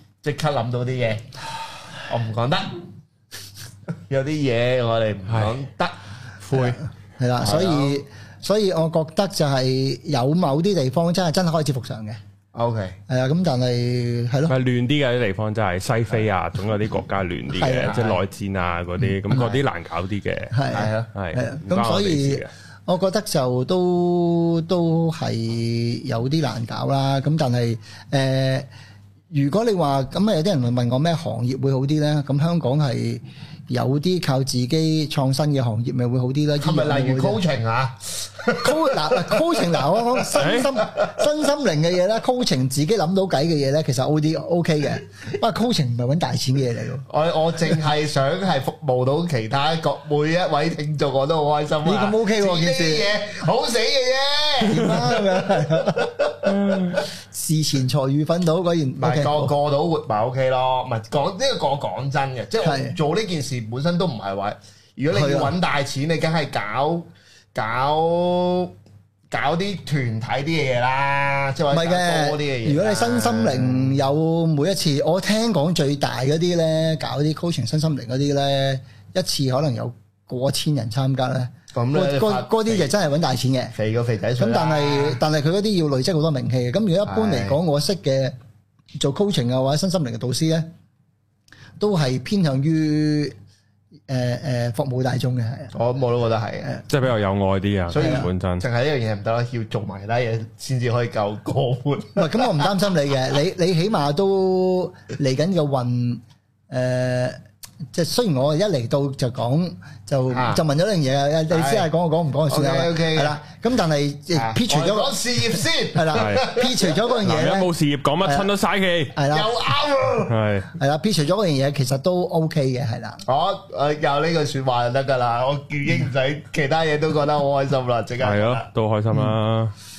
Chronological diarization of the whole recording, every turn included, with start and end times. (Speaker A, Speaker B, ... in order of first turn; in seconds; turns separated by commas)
Speaker A: 0.2-1.3, Speaker A: 2.0-2.8, Speaker A: 4.1-6.8, Speaker B: 5.3-5.5, Speaker C: 6.5-12.2, Speaker A: 7.4-8.0, Speaker A: 12.5-13.0, Speaker C: 13.1-14.5, Speaker B: 14.5-20.6, Speaker C: 17.6-18.0, Speaker A: 17.7-18.2, Speaker C: 20.5-28.7, Speaker A: 20.7-21.1, Speaker B: 21.1-22.5, Speaker C: 29.3-37.4, Speaker A: 36.6-40.3, Speaker C: 38.6-47.0, Speaker B: 40.4-40.7, Speaker A: 40.8-41.1, Speaker A: 47.1-57.0, Speaker C: 51.8-53.1, Speaker C: 54.6-56.3, Speaker B: 56.5-57.0, Speaker C: 56.9-59.5, Speaker A: 59.0-68.7, Speaker C: 62.6-63.0, Speaker C: 65.1-65.5, Speaker A: 69.3-74.0, Speaker C: 71.7-83.8, Speaker A: 81.7-82.9, Speaker A: 83.8-85.2, Speaker C: 84.4-88.3, Speaker A: 87.1-87.6, Speaker C: 89.0-90.7, Speaker C: 91.8-93.3, Speaker C: 94.1-95.7, Speaker A: 95.7-96.8, Speaker B: 96.9-98.7, Speaker A: 97.9-102.7, Speaker C: 98.0-98.3, Speaker C: 102.2-107.4, Speaker C: 107.9-115.1, Speaker A: 110.3-110.6, Speaker A: 111.5-111.9, Speaker A: 112.5-113.4, Speaker A: 114.3-117.2, Speaker C: 115.9-117.7, Speaker B: 116.1-116.5, Speaker B: 117.2-119.2, Speaker C: 118.2-118.5, Speaker C: 119.1-119.5, Speaker A: 119.3-120.3, Speaker B: 120.3-120.7, Speaker C: 120.7-123.2, Speaker A: 123.3-128.7, Speaker B: 128.2-129.7